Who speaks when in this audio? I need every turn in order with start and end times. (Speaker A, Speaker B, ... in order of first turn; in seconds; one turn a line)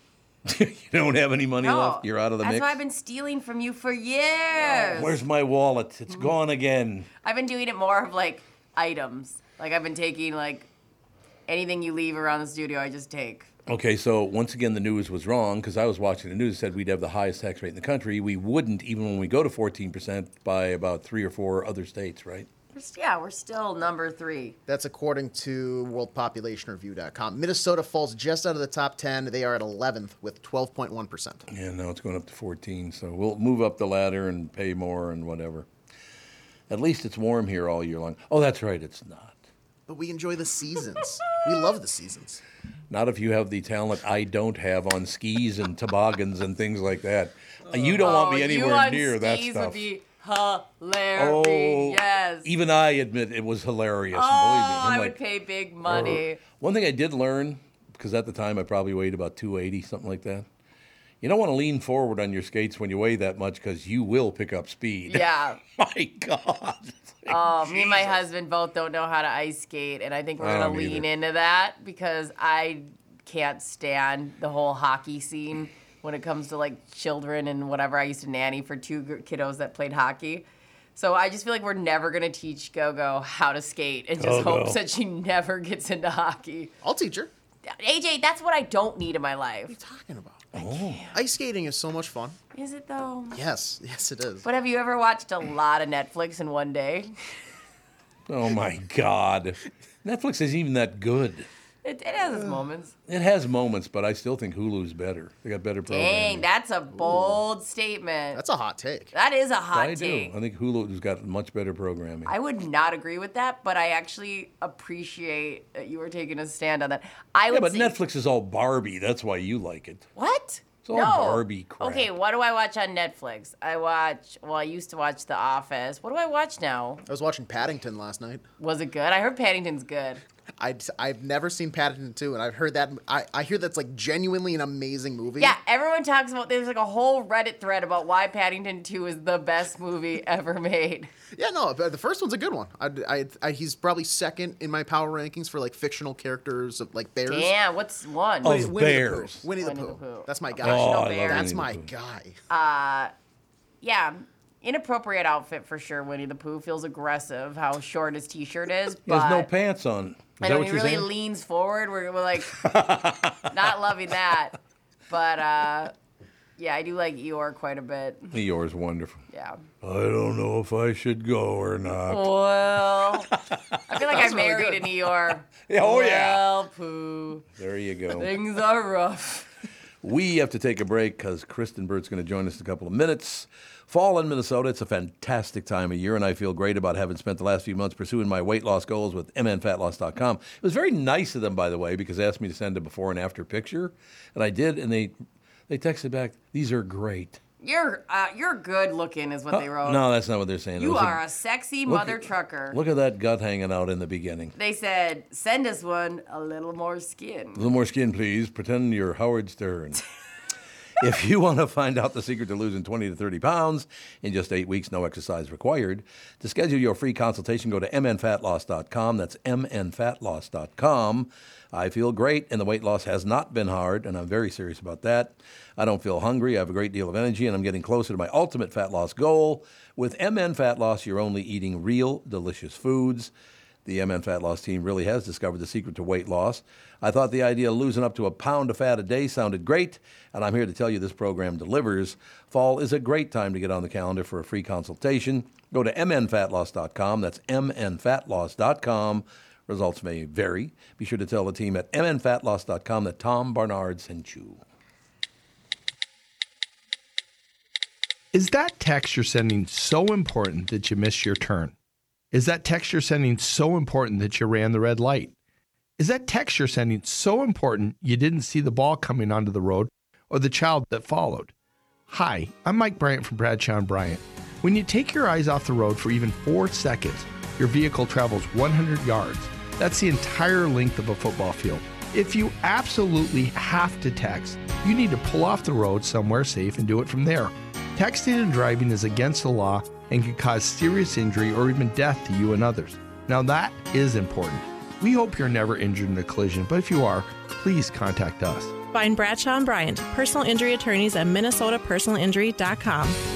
Speaker A: 0.5-2.8
Speaker B: 1.6-5.2
Speaker A: 4.6-7.1
Speaker B: 7.2-10.7
Speaker B: 11.5-13.5
Speaker A: 13.7-22.5
Speaker B: 22.7-24.6
Speaker C: 24.7-31.4
Speaker A: 31.5-35.7
Speaker A: 36.7-39.4
Speaker C: 39.9-42.4
Speaker A: 42.9-49.9
Speaker B: 48.0-52.5
Speaker A: 51.2-55.2
Speaker B: 54.1-56.4
Speaker A: 55.9-60.5
Speaker A: 61.2-68.2
Speaker B: 65.1-65.6
Speaker B: 67.3-80.5
Speaker A: 70.4-71.1
Speaker B: 81.0-86.7
Speaker A: 84.2-84.8
Speaker C: 86.8-87.3
Speaker B: 87.7-89.8
Speaker C: 89.7-90.5
Speaker A: 90.5-91.1
Speaker B: 90.6-91.2
Speaker C: 91.1-92.4
Speaker B: 92.5-93.4
Speaker C: 93.3-94.5
Speaker B: 94.4-97.1
Speaker A: 98.3-101.5
Speaker B: 101.8-102.9
Speaker A: 103.1-106.5
Speaker B: 105.9-108.4
Speaker C: 106.9-107.3
Speaker C: 108.3-109.1
Speaker B: 109.1-110.3
Speaker A: 109.7-112.3
Speaker B: 112.3-117.9
Speaker A: 117.5-120.1
Speaker B: 120.2-127.0
Speaker A: 120.8-122.1
Speaker C: 127.1-128.4
Speaker B: 128.6-130.2
Speaker C: 130.6-135.6
Speaker B: 135.4-141.1
Speaker C: 141.4-147.6
Speaker B: 147.3-148.7
Speaker C: 148.4-152.4
Speaker A: 148.4-149.4
Speaker B: 149.6-151.6
Speaker A: 150.6-151.9
Speaker B: 152.5-153.1
Speaker B: 153.8-159.5
Speaker A: 159.1-161.1
Speaker B: 160.4-162.7
Speaker A: 162.5-163.5
Speaker B: 163.5-164.6
Speaker B: 165.1-165.9
Speaker B: 166.6-168.3
Speaker A: 168.3-169.2
Speaker B: 169.3-169.6
Speaker A: 169.8-172.3
Speaker B: 172.1-173.3
Speaker A: 173.3-174.7
Speaker B: 173.9-177.4
Speaker A: 175.7-176.5
Speaker A: 177.6-178.3
Speaker B: 178.2-179.5
Speaker A: 180.0-195.1
Speaker A: 195.7-197.4
Speaker B: 197.6-200.0
Speaker A: 199.5-201.2
Speaker B: 200.8-202.8
Speaker A: 201.9-204.6
Speaker B: 204.6-207.7
Speaker A: 207.6-210.0
Speaker A: 211.0-233.3
Speaker A: 233.9-254.6
Speaker D: 258.3-261.7
Speaker D: 262.3-265.3
Speaker D: 266.0-271.5
Speaker D: 272.1-298.8
Speaker E: 298.9-303.2